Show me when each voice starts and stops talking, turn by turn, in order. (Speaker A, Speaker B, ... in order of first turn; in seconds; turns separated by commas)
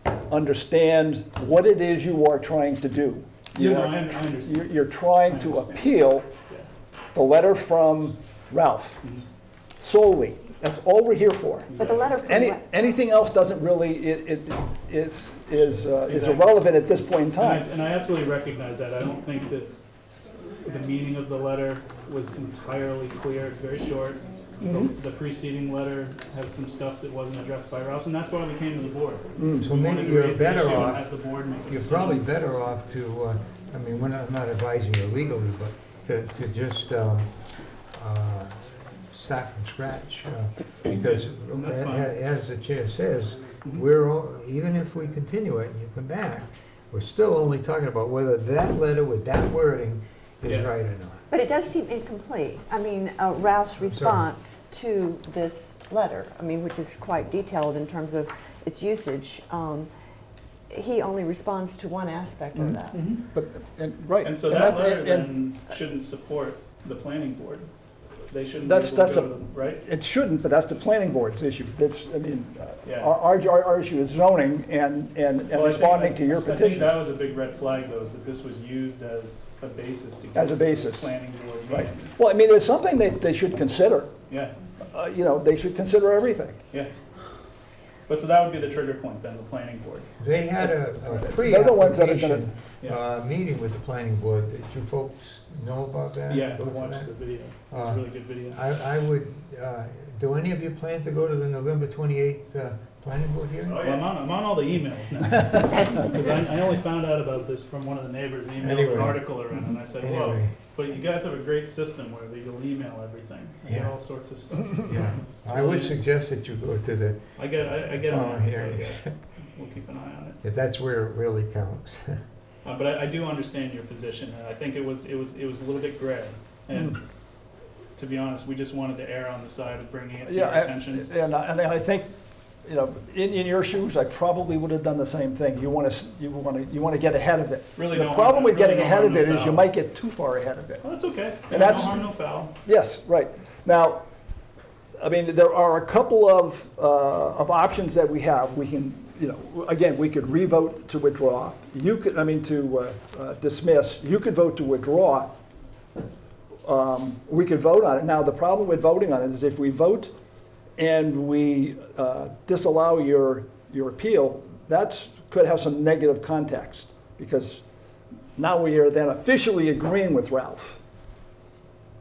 Speaker A: 0.3-6.3, Speaker B: 3.5-5.9, Speaker A: 7.1-9.0, Speaker A: 9.8-17.7, Speaker B: 11.7-12.1, Speaker C: 11.8-12.8, Speaker B: 16.1-16.6, Speaker B: 17.4-19.8, Speaker B: 20.6-32.3, Speaker A: 24.6-24.9, Speaker A: 29.4-29.7, Speaker D: 29.6-51.3, Speaker B: 40.9-42.1, Speaker B: 50.5-50.7, Speaker C: 51.3-59.9, Speaker D: 53.8-54.3, Speaker C: 60.7-63.1, Speaker A: 62.5-65.4, Speaker B: 62.9-63.2, Speaker B: 64.2-67.7, Speaker B: 68.3-69.8, Speaker A: 68.6-77.0, Speaker B: 72.8-73.1, Speaker B: 75.5-82.2, Speaker A: 80.3-81.1, Speaker A: 81.7-84.1, Speaker B: 84.3-84.6, Speaker A: 84.8-86.6, Speaker B: 86.7-87.0, Speaker B: 88.1-90.1, Speaker D: 90.2-97.1, Speaker A: 90.6-92.5, Speaker B: 96.3-98.6, Speaker D: 97.7-103.9, Speaker B: 103.7-116.0, Speaker D: 108.6-110.5, Speaker D: 113.7-113.9, Speaker D: 114.8-119.2, Speaker B: 117.4-120.4, Speaker D: 120.4-122.2, Speaker B: 122.6-127.0, Speaker B: 128.0-131.1, Speaker A: 130.2-132.1, Speaker A: 132.6-140.9, Speaker B: 137.8-139.7, Speaker B: 140.8-142.5, Speaker A: 141.5-142.1, Speaker A: 142.7-144.1, Speaker A: 145.0-155.3, Speaker A: 156.6-160.1, Speaker A: 160.8-167.6, Speaker A: 168.4-170.8